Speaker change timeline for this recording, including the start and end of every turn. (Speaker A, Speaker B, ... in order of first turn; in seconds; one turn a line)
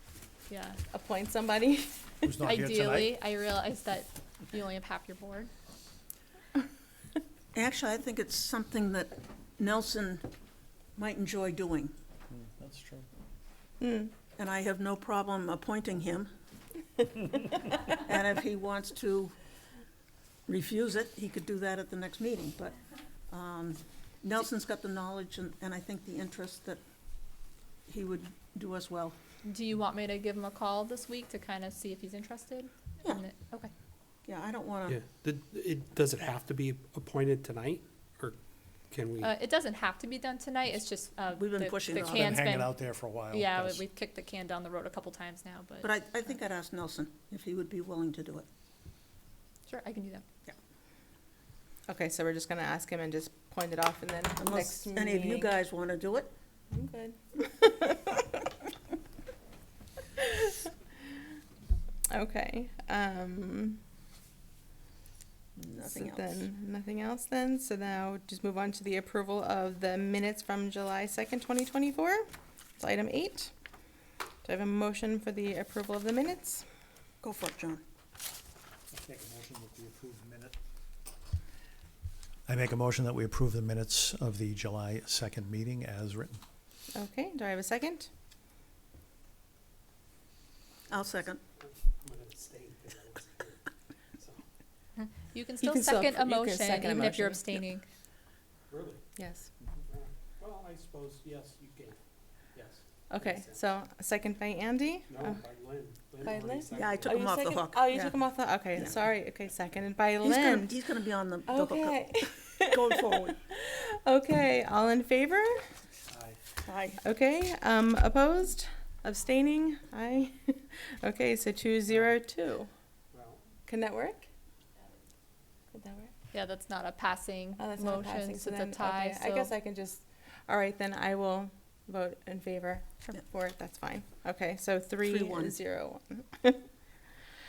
Speaker A: 0.5-0.8
Speaker B: 0.9-2.4
Speaker C: 2.3-3.2
Speaker A: 2.4-5.5
Speaker D: 7.5-10.2
Speaker D: 11.0-11.9
Speaker C: 12.3-13.1
Speaker B: 13.8-14.1
Speaker D: 14.4-16.3
Speaker D: 17.9-19.4
Speaker D: 20.5-22.8
Speaker D: 23.3-26.8
Speaker D: 27.9-29.2
Speaker A: 29.4-33.7
Speaker D: 34.2-35.0
Speaker E: 34.9-38.4
Speaker E: 38.9-39.3
Speaker A: 39.2-46.0
Speaker D: 41.4-42.4
Speaker C: 42.0-43.8
Speaker D: 45.8-48.5
Speaker A: 49.7-50.2
Speaker B: 51.9-55.5
Speaker D: 54.4-56.3
Speaker B: 56.7-58.5
Speaker B: 60.2-60.6
Speaker B: 62.1-63.8
Speaker D: 65.6-66.4
Speaker B: 65.8-72.3
Speaker B: 72.8-73.5
Speaker B: 74.4-76.6
Speaker D: 77.2-77.8
Speaker C: 78.9-80.6
Speaker C: 82.5-86.4
Speaker B: 86.9-88.1
Speaker D: 90.9-91.4
Speaker E: 91.6-93.6
Speaker E: 94.2-94.4
Speaker A: 95.0-97.9
Speaker B: 95.6-97.6
Speaker E: 98.7-99.0
Speaker B: 99.2-99.5
Speaker E: 99.9-102.0
Speaker E: 102.5-103.6
Speaker B: 103.1-105.4
Speaker E: 105.1-107.2
Speaker B: 106.2-110.8
Speaker D: 106.7-108.2
Speaker D: 110.2-113.4
Speaker B: 111.5-115.6
Speaker E: 116.1-116.4
Speaker D: 116.7-117.0
Speaker B: 117.0-122.7
Speaker E: 121.9-122.1
Speaker E: 123.1-123.4
Speaker B: 123.7-124.3
Speaker B: 125.7-126.1
Speaker A: 126.3-129.5
Speaker B: 127.6-136.6
Speaker D: 135.1-135.5